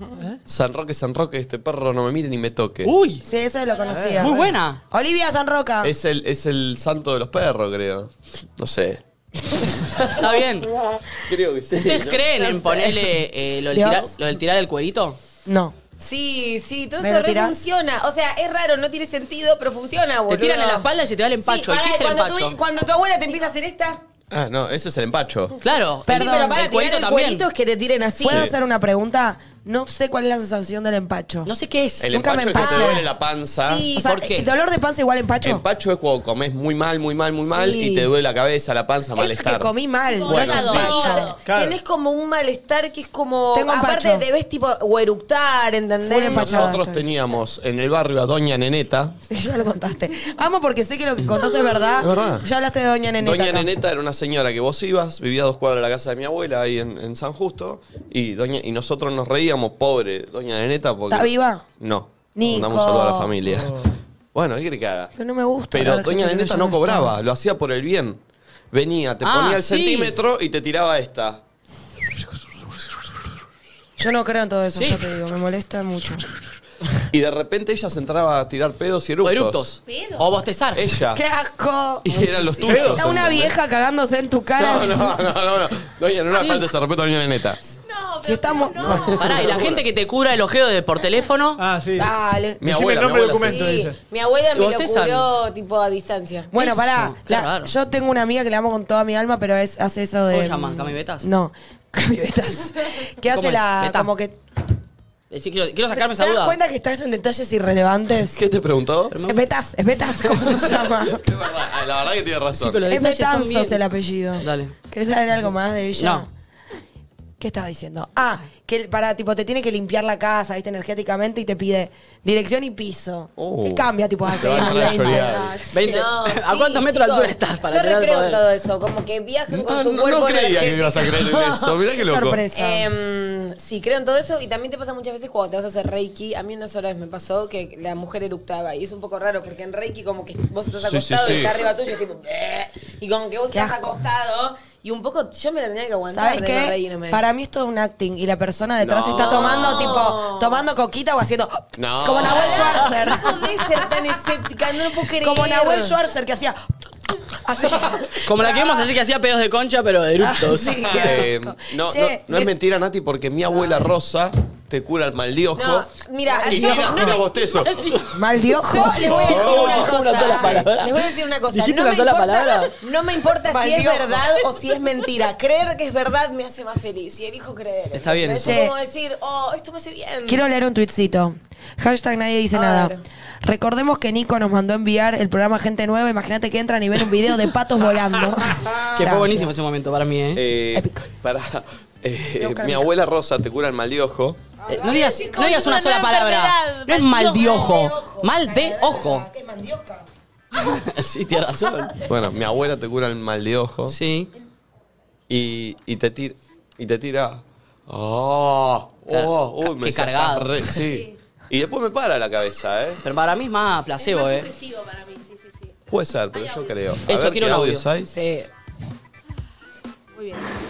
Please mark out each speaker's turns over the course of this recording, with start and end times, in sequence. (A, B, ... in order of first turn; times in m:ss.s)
0:00.4-0:02.9 A
0:02.8-0:03.2 B
0:03.2-0:04.4 C
0:03.9-0:04.6 D
0:04.1-0:04.8 B
0:04.9-0:05.9 C
0:05.8-0:09.0 A
0:10.1-0:10.7 B
0:11.2-0:12.3 A
0:11.8-0:15.2 B
0:12.4-0:13.1 E
0:13.7-0:14.1 C
0:15.4-0:15.8 C
0:16.0-0:20.8 E
0:17.0-0:17.6 C
0:20.3-0:22.6 B
0:21.4-0:24.0 E
0:24.3-0:25.5 A
0:25.6-0:27.4 B
0:26.0-0:28.5 E
0:26.1-0:26.5 C
0:28.2-0:31.5 C
0:31.4-0:32.1 B
0:32.0-0:33.9 A
0:32.1-0:33.0 C
0:32.6-0:33.1 E
0:33.6-0:33.9 E
0:33.9-0:35.6 C
0:33.9-0:34.5 B
0:35.4-0:39.7 A
0:37.4-0:38.1 E
0:39.2-0:41.4 C
0:40.1-0:41.4 F
0:40.3-0:41.2 A
0:41.1-0:46.8 E
0:41.4-0:41.8 D
0:43.5-0:44.2 C
0:46.0-0:47.0 C
0:46.3-0:49.2 A
0:49.3-0:53.7 C
0:52.0-0:52.4 A
0:53.2-1:05.1 A
1:01.1-1:01.7 C
1:02.3-1:03.5 C
1:05.2-1:07.2 C
1:05.7-1:11.4 A
1:09.2-1:10.2 B
1:14.0-1:16.2 C
1:14.8-1:15.0 B
1:17.1-1:19.7 A
1:19.2-1:20.9 B
1:19.8-1:20.2 F
1:20.7-1:21.2 A
1:21.1-1:25.2 C
1:22.0-1:23.5 A
1:22.6-1:23.0 D
1:24.6-1:27.6 A
1:26.3-1:26.6 B
1:27.9-1:29.5 F
1:28.2-1:29.2 C
1:28.8-1:29.8 A
1:29.2-1:31.6 B
1:31.6-1:32.1 D
1:32.0-1:32.6 C
1:32.6-1:33.6 A
1:32.6-1:34.0 D
1:33.4-1:36.5 E
1:34.5-1:35.3 B
1:36.5-1:44.4 C
1:36.6-1:37.7 B
1:40.3-1:41.3 B
1:43.3-1:44.1 B
1:45.3-1:46.6 B
1:45.9-1:48.4 C
1:48.3-1:49.1 A
1:49.1-1:49.4 B
1:49.1-1:51.2 C
1:50.7-1:52.8 A
1:52.5-1:53.8 B
1:52.8-1:56.3 C
1:54.4-1:54.7 B
1:56.0-1:56.2 B
1:57.4-2:05.8 C
2:03.4-2:05.6 A
2:04.6-2:05.0 B
2:05.1-2:11.8 E
2:05.7-2:08.4 B
2:09.5-2:12.4 A
2:12.0-2:12.9 C
2:12.5-2:27.2 E
2:20.8-2:21.7 A
2:23.5-2:24.0 C
2:26.1-2:33.8 C
2:28.8-2:29.9 A
2:29.2-2:30.6 E
2:31.8-2:32.9 A
2:32.2-2:36.0 E
2:35.1-2:36.6 C
2:37.1-2:38.9 C
2:38.2-2:41.0 B
2:40.2-2:42.5 C
2:40.8-2:45.9 A
2:45.5-2:47.3 E
2:46.3-2:47.2 C
2:46.4-2:47.7 A
2:47.6-2:48.0 F
2:48.1-2:50.6 C
2:48.6-3:00.4 E
2:49.0-2:52.7 B
2:49.1-2:50.6 A
2:53.5-2:54.3 C
2:57.9-2:58.6 B
2:58.4-2:58.8 C
3:00.2-3:09.5 C
3:02.5-3:03.0 E
3:08.9-3:10.4 B
3:10.3-3:14.4 A
3:10.7-3:11.1 C
3:12.4-3:12.9 C
3:14.6-3:15.8 C
3:14.7-3:19.3 B
3:14.8-3:17.7 F
3:17.3-3:20.1 C
3:20.6-3:22.0 B
3:22.1-3:24.0 A
3:23.8-3:24.3 B
3:25.3-3:33.0 A
3:29.1-3:30.5 B
3:30.7-3:31.2 F
3:33.0-3:34.5 B
3:34.0-3:35.7 F
3:35.9-3:38.1 A
3:36.3-3:36.8 F
3:37.0-3:37.9 B
3:38.1-3:38.5 E